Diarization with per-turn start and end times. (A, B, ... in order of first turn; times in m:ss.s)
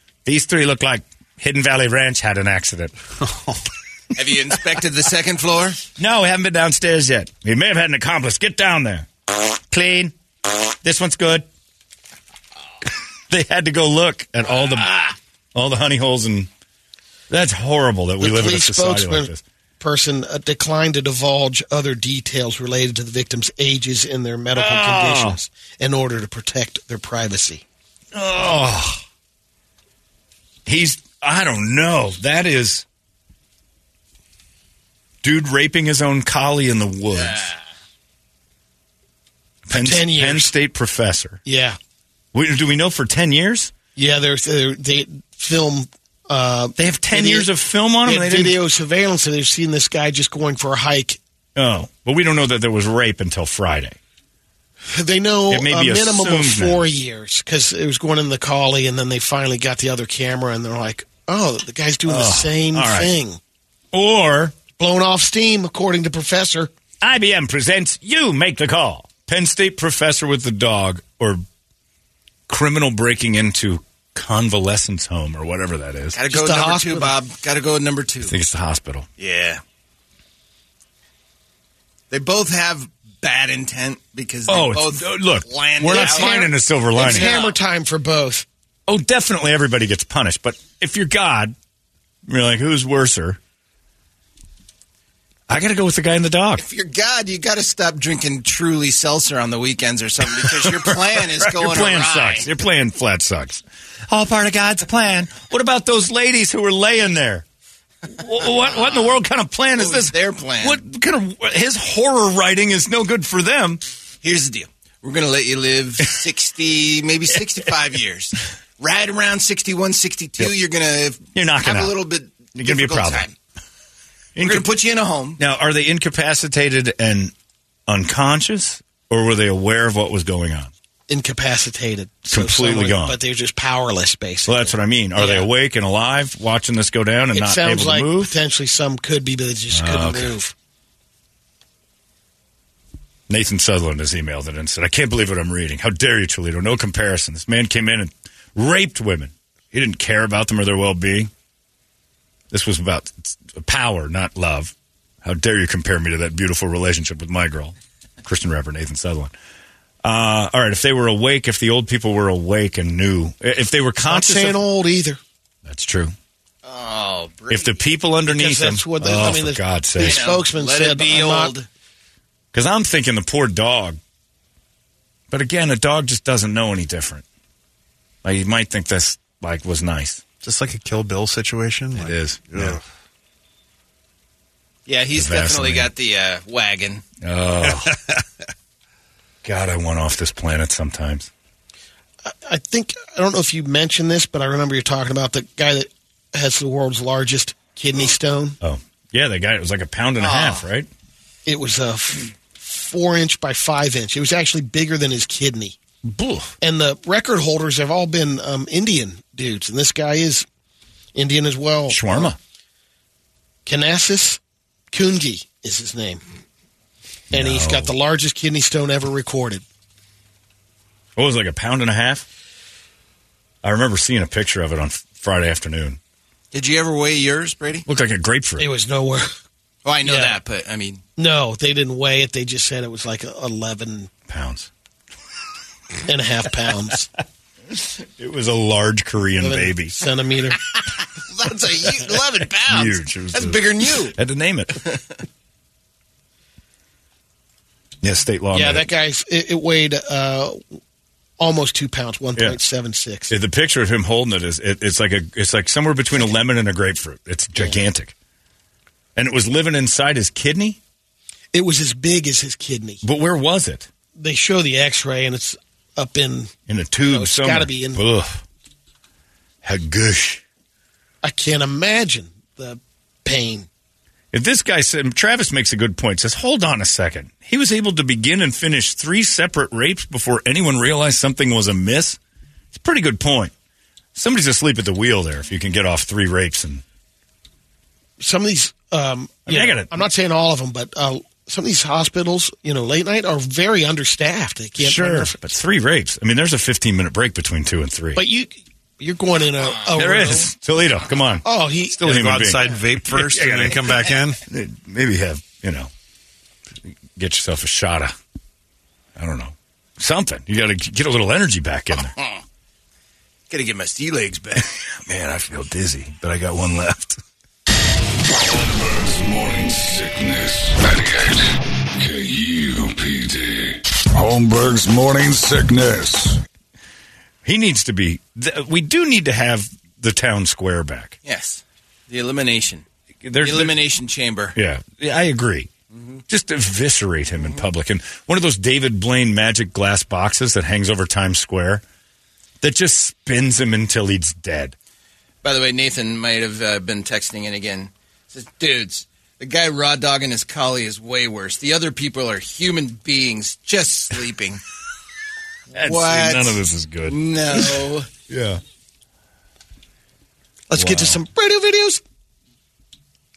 0:00.2-0:02.9 A
0:03.3-0:03.6 B
0:04.1-0:05.8 C
0:06.0-0:10.1 A
0:10.8-0:11.5 A
0:13.3-0:16.5 A
0:17.3-0:19.4 A
0:18.2-0:27.6 D
0:24.5-0:25.4 A
0:28.1-0:29.0 A
0:30.6-0:32.8 A
0:35.2-0:37.5 A
0:39.7-0:41.4 A
0:39.7-0:40.5 D
0:41.4-0:41.8 D
0:42.3-0:43.7 A
0:44.0-0:47.5 D
0:46.8-0:48.6 A
0:48.0-0:51.2 D
0:51.6-0:54.0 A
0:54.9-1:03.4 D
0:55.5-0:56.8 A
1:02.1-1:03.1 A
1:03.9-1:04.6 A
1:04.8-1:06.7 D
1:07.0-1:11.4 A
1:12.5-1:16.2 A
1:16.1-1:18.3 C
1:16.3-1:17.1 D
1:18.2-1:19.1 A
1:19.2-1:19.6 C
1:22.1-1:26.4 C
1:24.5-1:27.3 A
1:25.9-1:28.4 D
1:27.0-1:27.6 C
1:28.9-1:31.6 A
1:32.2-1:33.4 A
1:35.5-1:36.6 A
1:36.6-1:42.5 C
1:40.4-1:47.4 A
1:48.0-1:53.8 A
1:49.8-1:50.8 C
1:54.2-2:03.3 C
2:01.4-2:02.0 A
2:02.6-2:03.2 A
2:04.4-2:04.7 A
2:04.4-2:05.4 C
2:05.4-2:07.3 A
2:07.9-2:10.7 A
2:11.1-2:15.4 D
2:12.3-2:13.2 A
2:14.4-2:18.3 A
2:17.3-2:20.5 D
2:19.7-2:20.3 A
2:23.3-2:31.3 A
2:32.5-2:39.3 A
2:40.0-2:44.6 A
2:44.1-2:45.2 D
2:45.6-2:46.1 A
2:46.6-2:47.8 C
2:47.5-2:50.2 A
2:48.3-2:51.5 D
2:50.0-2:51.7 C
2:52.5-2:54.0 A
2:55.3-2:57.2 A
2:58.2-3:00.2 A
3:00.4-3:02.8 B
3:01.9-3:02.8 A
3:04.9-3:07.0 C
3:05.1-3:05.9 A
3:07.2-3:08.0 A
3:07.8-3:08.1 B
3:09.4-3:11.3 A
3:12.2-3:18.6 D
3:18.6-3:20.9 A
3:20.2-3:20.6 C
3:21.4-3:25.8 D
3:26.0-3:26.5 A
3:26.6-3:30.4 D
3:31.1-3:32.3 D
3:31.9-3:32.4 A
3:33.6-3:34.4 D
3:34.9-3:36.2 D
3:37.3-3:37.9 A
3:37.3-3:39.6 D
3:41.2-3:42.2 A
3:43.6-3:46.0 A
3:46.5-3:47.8 C
3:47.9-3:48.7 A
3:48.6-3:49.3 D
3:49.8-3:51.0 C
3:50.0-3:50.4 D
3:51.2-3:54.1 D
3:54.3-3:54.7 A
3:56.1-3:57.1 D
3:57.7-3:59.9 A
3:59.4-4:00.6 D
4:01.3-4:04.2 C
4:02.7-4:04.8 A
4:08.0-4:08.9 A
4:08.5-4:10.6 D
4:11.4-4:13.3 D
4:13.3-4:18.1 A
4:19.2-4:20.8 A
4:21.5-4:23.0 D
4:23.0-4:23.9 A
4:24.2-4:26.5 D
4:26.7-4:28.4 A
4:27.1-4:28.0 D
4:29.6-4:30.4 A
4:31.2-4:33.7 D
4:34.3-4:42.2 A
4:42.7-4:43.5 A
4:44.1-4:46.8 A
4:48.2-4:55.4 D
4:49.5-4:50.0 A
4:54.8-4:58.2 A
4:58.2-5:00.5 D
4:59.9-5:01.4 A
5:01.4-5:02.0 D
5:02.0-5:04.4 B
5:02.0-5:05.9 A
5:07.2-5:08.1 A
5:09.2-5:12.1 A
5:13.5-5:14.7 C
5:14.6-5:17.2 A
5:18.2-5:26.4 E
5:27.4-5:31.2 A
5:31.2-5:32.8 C
5:33.2-5:33.8 A
5:33.4-5:34.6 C
5:34.6-5:35.7 A
5:35.9-5:36.2 C
5:36.3-5:41.8 A
5:42.6-5:44.7 A
5:45.4-5:54.6 C
5:55.7-5:58.1 C
5:55.7-5:58.6 A
6:00.7-6:02.0 D
6:00.7-6:01.2 A